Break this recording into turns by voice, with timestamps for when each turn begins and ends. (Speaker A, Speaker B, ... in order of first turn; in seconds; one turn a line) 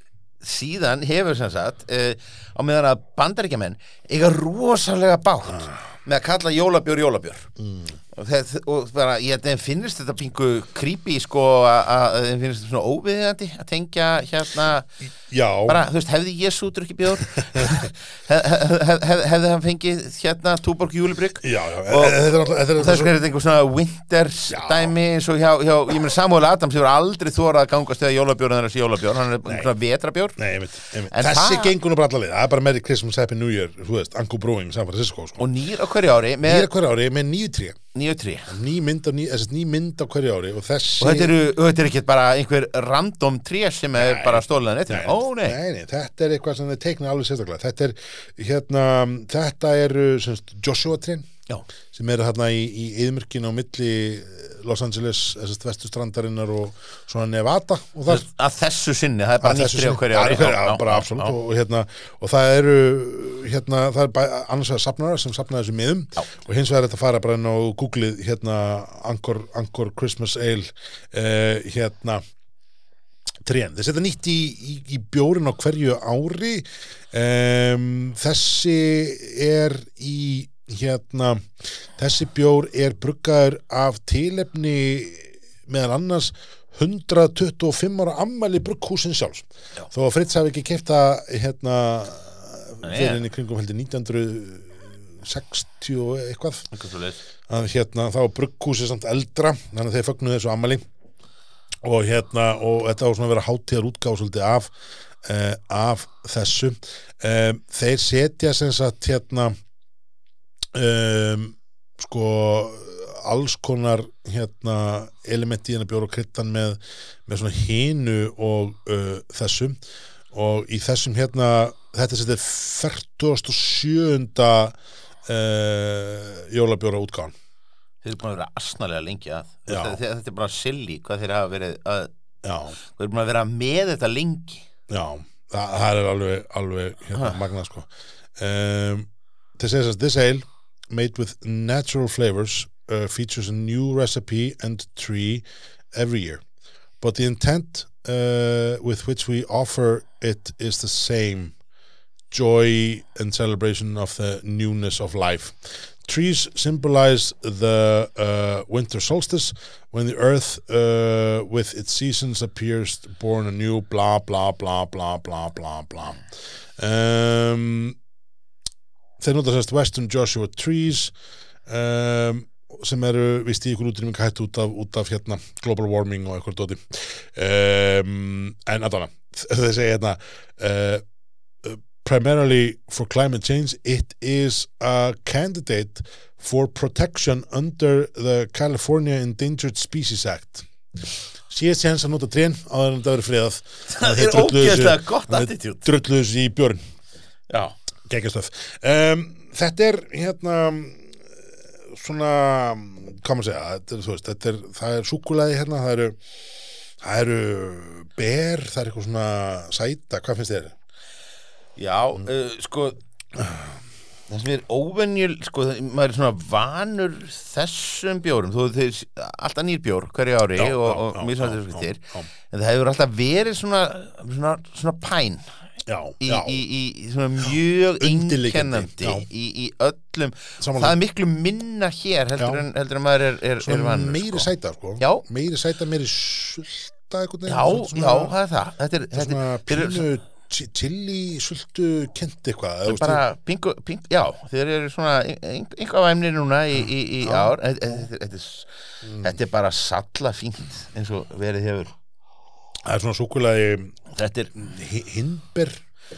Speaker A: 0.4-7.5
Speaker B: 5.5-5.8
Speaker B: 7.6-7.9
Speaker A: 8.1-14.9
Speaker B: 15.2-15.8
Speaker A: 15.7-30.4
Speaker B: 17.3-17.9
Speaker B: 21.4-23.1
Speaker B: 24.5-24.9
Speaker B: 30.4-35.5
Speaker A: 31.1-31.7
Speaker A: 35.4-36.7
Speaker B: 36.4-37.8
Speaker A: 37.9-38.5
Speaker B: 38.5-41.4
Speaker A: 41.0-45.6
Speaker B: 44.0-51.3
Speaker B: 51.9-58.3
Speaker A: 58.1-61.3
Speaker B: 59.4-72.2
Speaker B: 73.4-96.7
Speaker A: 92.8-93.2
Speaker A: 96.7-97.2
Speaker B: 97.5-100.8
Speaker B: 101.8-104.7
Speaker B: 105.2-109.5
Speaker B: 110.7-119.8
Speaker B: 120.3-127.3
Speaker A: 128.0-132.1
Speaker B: 129.7-130.0
Speaker B: 132.4-132.8
Speaker A: 132.9-134.6
Speaker B: 134.9-146.4
Speaker A: 137.1-137.4
Speaker B: 147.0-151.5
Speaker B: 152.3-166.2
Speaker B: 166.8-168.0
Speaker B: 169.2-171.1
Speaker B: 171.7-181.0
Speaker B: 181.6-190.7
Speaker B: 191.5-196.8
Speaker A: 193.9-195.9
Speaker A: 197.5-197.7
Speaker B: 198.1-206.2
Speaker B: 207.0-210.7
Speaker A: 211.8-213.0
Speaker B: 213.4-213.7
Speaker A: 214.3-225.4
Speaker B: 220.6-222.3
Speaker B: 225.8-226.6
Speaker A: 226.2-234.5
Speaker B: 227.4-229.2
Speaker B: 230.6-230.9
Speaker B: 232.4-232.6
Speaker B: 233.6-238.3
Speaker A: 235.0-235.2
Speaker A: 237.4-240.1
Speaker B: 239.1-243.2
Speaker A: 242.8-251.9
Speaker B: 246.8-248.0
Speaker B: 249.0-249.3
Speaker B: 252.8-254.0
Speaker A: 254.1-254.5
Speaker B: 254.5-255.8